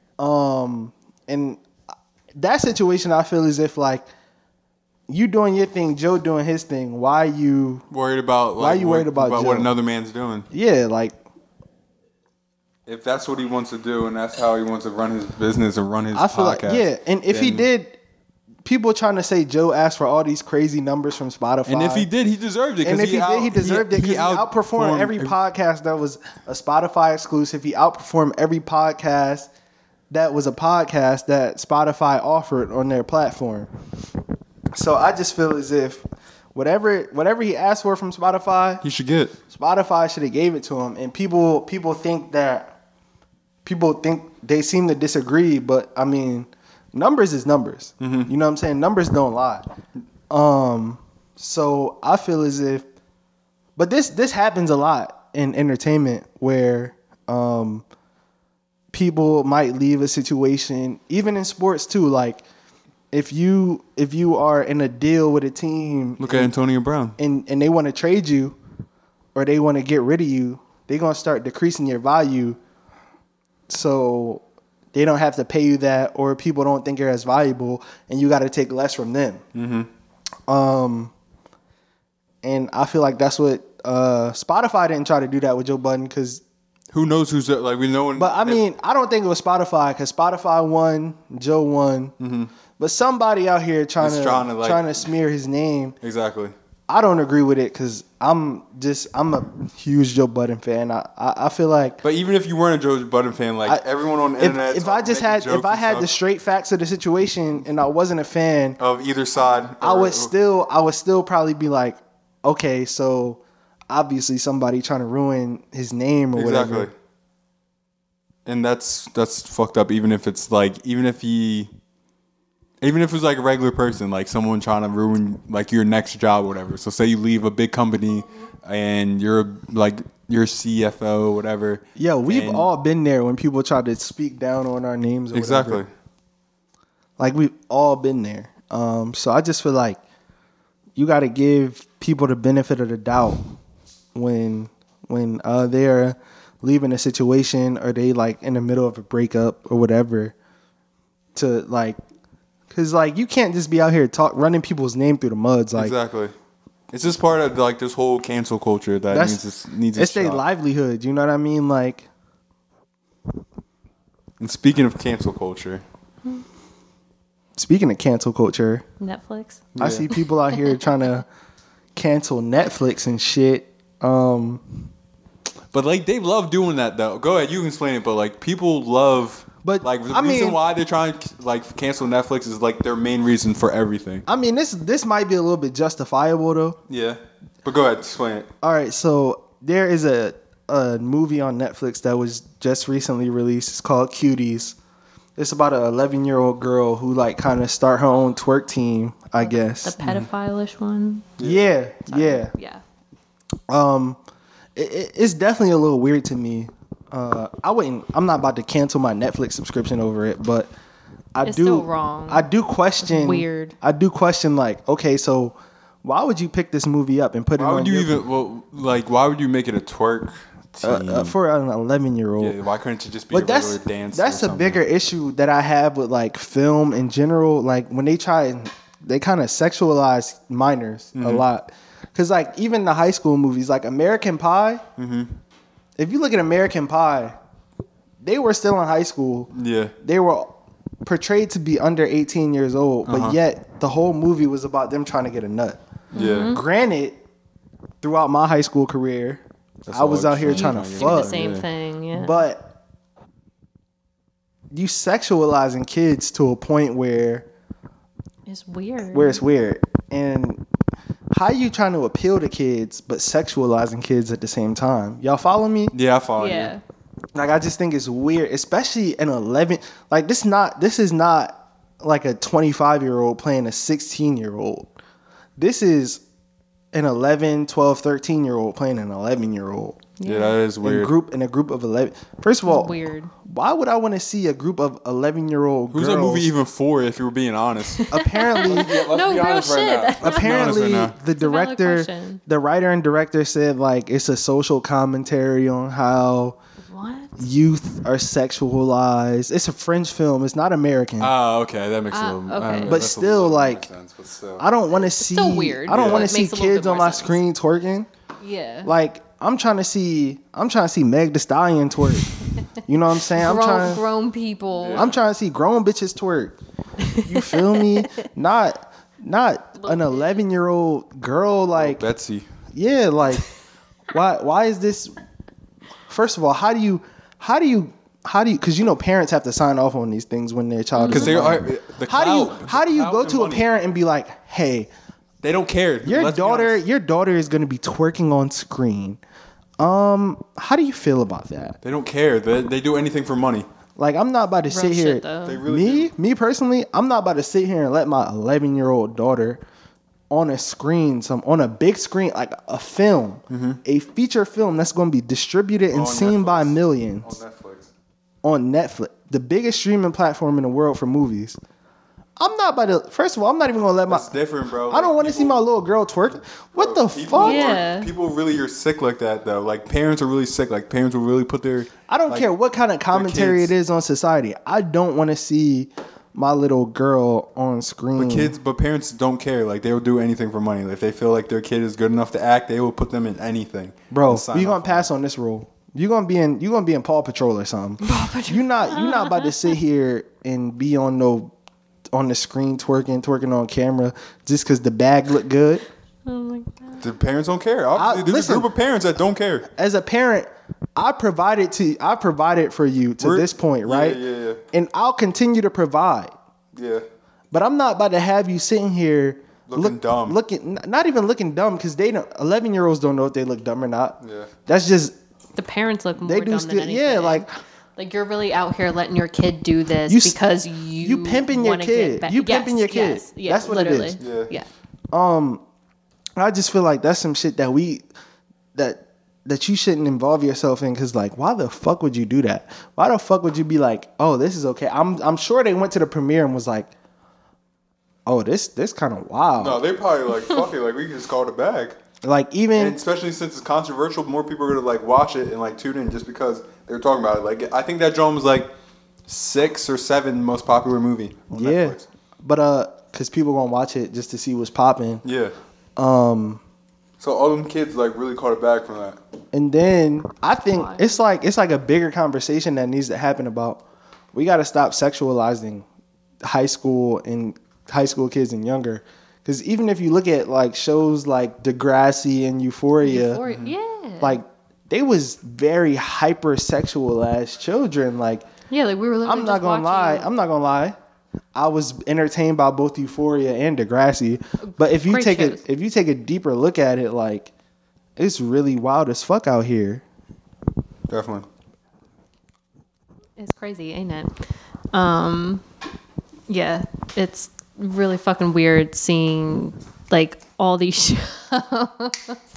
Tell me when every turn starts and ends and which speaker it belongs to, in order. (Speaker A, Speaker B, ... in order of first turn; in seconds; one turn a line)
Speaker A: 0.2-1.6
Speaker A: 2.4-4.0
Speaker A: 5.1-7.8
Speaker B: 7.9-10.5
Speaker A: 8.6-9.7
Speaker A: 10.5-11.2
Speaker B: 12.8-17.7
Speaker A: 16.1-18.0
Speaker A: 18.6-22.1
Speaker B: 21.6-25.4
Speaker A: 22.8-29.5
Speaker A: 30.1-33.7
Speaker A: 34.7-38.8
Speaker B: 38.8-39.3
Speaker A: 39.5-42.8
Speaker A: 43.6-49.7
Speaker B: 48.0-48.3
Speaker A: 50.3-52.8
Speaker A: 53.8-57.8
Speaker A: 58.9-62.4
Speaker A: 63.1-66.5
Speaker B: 66.2-67.2
Speaker A: 67.2-68.6
Speaker A: 69.3-72.6
Speaker A: 73.7-79.4
Speaker B: 79.5-79.9
Speaker A: 80.5-81.1
Speaker A: 82.4-86.4
Speaker B: 86.9-88.6
Speaker A: 88.2-92.1
Speaker B: 92.2-92.5
Speaker A: 92.8-96.0
Speaker B: 94.0-94.8
Speaker B: 96.0-96.5
Speaker A: 96.9-102.0
Speaker B: 102.0-106.1
Speaker A: 104.4-108.8
Speaker B: 108.8-110.3
Speaker A: 109.4-116.9
Speaker B: 116.3-116.9
Speaker B: 118.5-121.7
Speaker B: 122.8-132.7
Speaker A: 131.9-135.8
Speaker B: 135.3-135.9
Speaker A: 137.2-140.0
Speaker A: 140.9-143.4
Speaker A: 144.1-150.3
Speaker A: 151.3-152.0
Speaker A: 152.7-155.9
Speaker B: 155.8-156.3
Speaker B: 156.9-160.4
Speaker A: 159.1-159.4
Speaker A: 159.9-162.1
Speaker B: 164.4-165.8
Speaker A: 167.6-168.8
Speaker C: 169.0-170.8
Speaker B: 169.8-170.1
Speaker A: 169.8-171.2
Speaker A: 171.9-174.8
Speaker B: 175.7-184.2
Speaker A: 179.6-180.6
Speaker A: 184.3-186.8
Speaker B: 186.9-188.5
Speaker A: 188.6-194.8
Speaker A: 195.4-200.0
Speaker C: 199.4-201.3
Speaker B: 201.4-201.7
Speaker A: 201.4-202.5
Speaker C: 202.1-202.8
Speaker A: 203.7-204.2
Speaker A: 204.8-210.7
Speaker A: 211.3-218.2
Speaker C: 211.4-212.5
Speaker C: 213.0-213.7
Speaker B: 217.6-221.3
Speaker A: 220.8-222.6
Speaker B: 222.4-224.8
Speaker A: 223.3-234.8
Speaker B: 231.1-231.4
Speaker B: 235.0-235.3
Speaker A: 236.0-237.3
Speaker A: 238.2-245.8
Speaker B: 239.5-239.9
Speaker B: 243.1-243.4
Speaker C: 246.1-246.6
Speaker B: 246.1-246.5
Speaker A: 246.5-247.2
Speaker A: 248.0-251.4
Speaker B: 249.8-251.7
Speaker C: 250.4-252.4
Speaker A: 252.1-252.7
Speaker A: 254.7-257.5
Speaker C: 258.5-259.4
Speaker A: 259.1-260.6
Speaker A: 261.3-265.9
Speaker B: 265.9-266.7
Speaker C: 266.4-266.8
Speaker A: 267.3-274.9
Speaker A: 275.6-276.2
Speaker A: 276.9-280.0
Speaker C: 280.2-280.6
Speaker B: 280.2-281.1
Speaker A: 280.8-286.5
Speaker C: 282.6-283.3
Speaker B: 285.9-288.1
Speaker C: 287.9-292.4
Speaker A: 288.1-289.0
Speaker B: 288.6-291.1
Speaker A: 290.2-296.6
Speaker C: 296.9-297.4
Speaker A: 297.4-301.3
Speaker B: 301.2-304.6
Speaker C: 302.1-303.0
Speaker A: 302.9-303.9
Speaker A: 304.6-308.1
Speaker C: 305.1-307.4
Speaker B: 305.9-306.3
Speaker C: 308.4-308.9
Speaker A: 308.8-312.3
Speaker A: 312.8-314.0
Speaker C: 313.3-315.1
Speaker B: 314.8-315.1
Speaker A: 314.9-316.6
Speaker C: 317.0-318.2
Speaker A: 317.2-322.0
Speaker C: 319.8-320.4
Speaker B: 321.8-322.5
Speaker A: 322.7-323.5
Speaker A: 324.1-325.1
Speaker A: 326.1-334.9
Speaker C: 330.9-331.4
Speaker B: 331.0-333.6
Speaker B: 335.4-336.8
Speaker A: 336.0-339.2
Speaker A: 339.8-341.8
Speaker B: 341.8-343.6
Speaker A: 344.0-349.6
Speaker C: 344.7-345.6
Speaker B: 345.4-346.1
Speaker A: 350.3-357.3
Speaker B: 353.5-353.8
Speaker B: 355.9-357.9
Speaker A: 358.4-361.6
Speaker A: 362.4-364.3
Speaker B: 364.1-365.6
Speaker A: 364.9-367.8
Speaker B: 366.8-372.5
Speaker C: 367.4-368.1
Speaker A: 372.1-378.6
Speaker B: 373.1-373.7
Speaker B: 378.2-385.1
Speaker A: 384.1-391.5
Speaker C: 388.0-389.7
Speaker A: 392.1-395.9
Speaker C: 396.2-397.0
Speaker B: 397.0-399.7
Speaker A: 397.9-398.7
Speaker A: 399.7-404.2
Speaker B: 403.2-404.6
Speaker A: 404.7-406.3
Speaker B: 406.7-407.0
Speaker A: 407.5-415.1
Speaker B: 409.7-410.4
Speaker B: 414.2-414.5
Speaker C: 415.6-424.7
Speaker A: 416.2-417.5
Speaker A: 420.1-420.4
Speaker A: 421.0-424.2
Speaker B: 424.2-424.5
Speaker A: 425.1-425.6
Speaker A: 426.4-428.1
Speaker A: 428.7-436.9
Speaker A: 438.2-439.8
Speaker B: 439.6-442.0
Speaker A: 442.2-443.0
Speaker B: 442.8-448.7
Speaker B: 449.3-452.1
Speaker A: 451.5-455.2
Speaker B: 455.2-455.5
Speaker A: 456.0-456.6
Speaker B: 457.2-459.2
Speaker A: 459.5-465.9
Speaker C: 460.7-461.2
Speaker A: 466.4-473.4
Speaker C: 473.0-474.4
Speaker B: 473.5-473.7
Speaker A: 474.2-478.4
Speaker C: 478.7-480.3
Speaker A: 479.2-480.9
Speaker A: 481.5-487.5
Speaker C: 484.6-485.6
Speaker A: 488.2-490.0
Speaker B: 491.1-491.4
Speaker C: 493.4-494.3
Speaker C: 494.9-495.6
Speaker C: 496.5-502.4